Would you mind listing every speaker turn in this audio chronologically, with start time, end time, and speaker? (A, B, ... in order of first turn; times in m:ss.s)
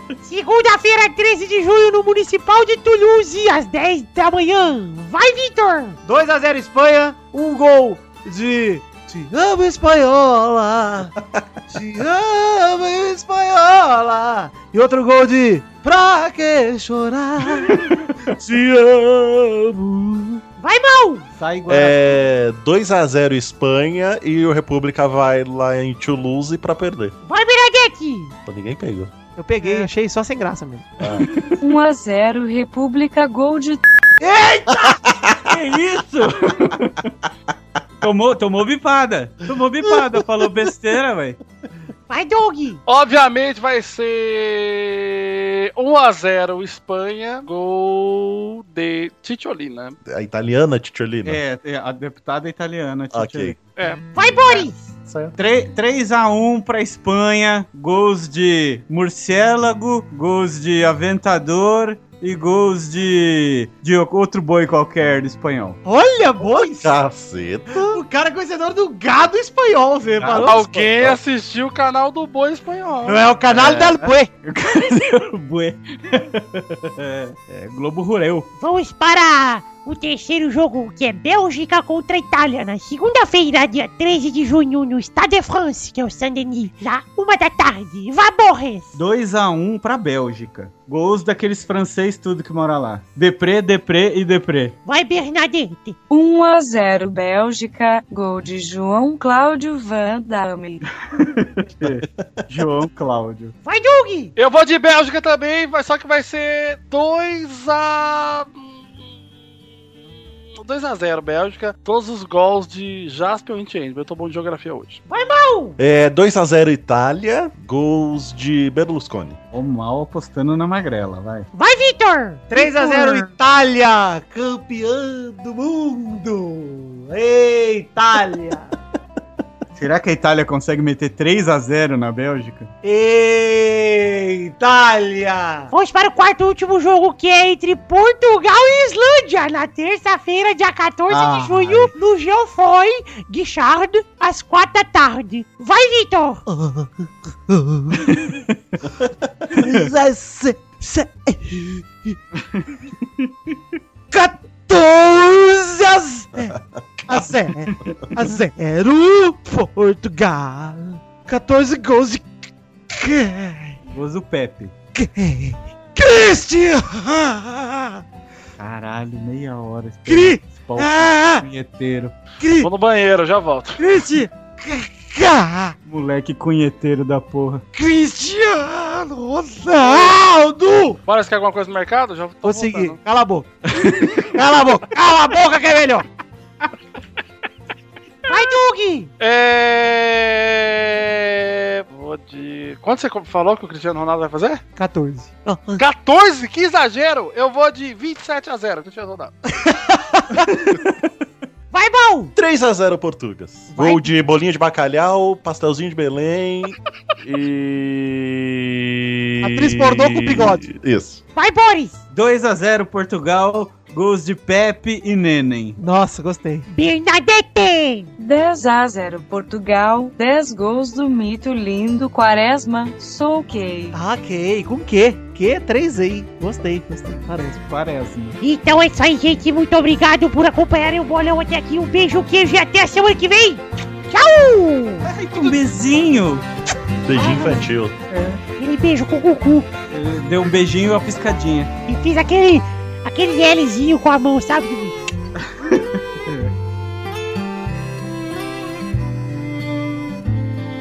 0:00.2-0:06.0 A
0:06.0-0:11.1 B
0:11.7-0:19.3 B
0:18.5-0:19.8 C
0:19.9-0:20.4 B
0:20.6-0:21.3 A
0:21.4-0:22.2 D
0:21.7-0:27.1 C
0:27.2-0:28.3 A
0:28.4-0:29.1 C
0:29.4-0:31.0 B
0:31.0-0:31.3 C
0:31.6-0:33.8 E
0:34.2-0:35.0 B
0:34.8-0:35.4 C
0:35.5-0:37.1 D
0:38.0-0:41.4 D
0:42.1-0:42.8 A
0:42.9-0:50.0 F
0:50.1-0:51.4 C
0:51.2-0:53.6 D
0:53.1-0:53.6 C
0:53.8-0:54.7 F
0:54.1-0:55.0 A
0:55.0-0:55.3 C
0:55.4-1:05.8 D
1:05.8-1:07.0 B
1:06.6-1:08.0 C
1:07.8-1:10.8 B
1:10.2-1:10.6 D
1:10.3-1:13.2 F
1:13.0-1:14.3 B
1:13.5-1:18.5 D
1:18.6-1:29.0 A
1:29.0-1:34.8 D
1:34.8-1:36.0 A
1:36.1-1:40.8 E
1:41.1-1:43.5 D
1:43.6-1:44.3 A
1:44.4-1:48.9 F
1:50.6-1:55.0 F
1:55.1-1:55.8 A
1:55.8-1:59.4 C
1:59.5-2:01.5 D
2:01.5-2:03.3 A
2:02.5-2:08.7 B
2:09.8-2:12.7 D
2:12.8-2:15.7 B
2:15.7-2:26.4 A
2:21.1-2:21.9 D
2:26.5-2:28.3 B
2:28.1-2:28.5 D
2:29.5-2:32.2 B
2:34.1-2:36.5 B
2:36.5-2:37.1 C
2:37.1-2:42.3 B
2:42.9-2:43.8 B
2:43.9-2:44.7 D
2:45.0-2:48.0 B
2:48.6-2:52.1 D
2:50.1-2:51.4 B
2:52.4-2:52.7 B
2:52.6-2:53.8 F
2:53.8-2:55.8 B
2:55.9-2:57.6 D
2:57.7-3:01.0 B
3:01.0-3:03.0 F
3:02.4-3:03.5 B
3:03.8-3:04.2 D
3:04.1-3:06.0 B
3:08.3-3:09.1 A
3:09.2-3:14.6 F
3:14.8-3:15.8 B
3:15.8-3:19.3 F
3:19.7-3:20.5 B
3:21.7-3:22.3 A
3:22.3-3:31.2 C
3:23.7-3:24.0 A
3:29.4-3:30.7 B
3:31.4-3:32.0 A
3:32.1-3:35.8 D
3:35.8-3:36.7 B
3:36.7-3:38.1 A
3:38.2-3:44.0 E
3:43.9-3:47.6 B
3:47.7-3:48.4 D
3:48.4-3:55.1 A
3:55.0-3:56.4 D
3:57.0-3:58.0 C
3:57.1-3:57.7 A
3:58.1-3:58.4 D
3:58.6-3:59.7 A
3:59.9-4:01.7 D
4:01.9-4:05.0 A
4:05.6-4:06.5 D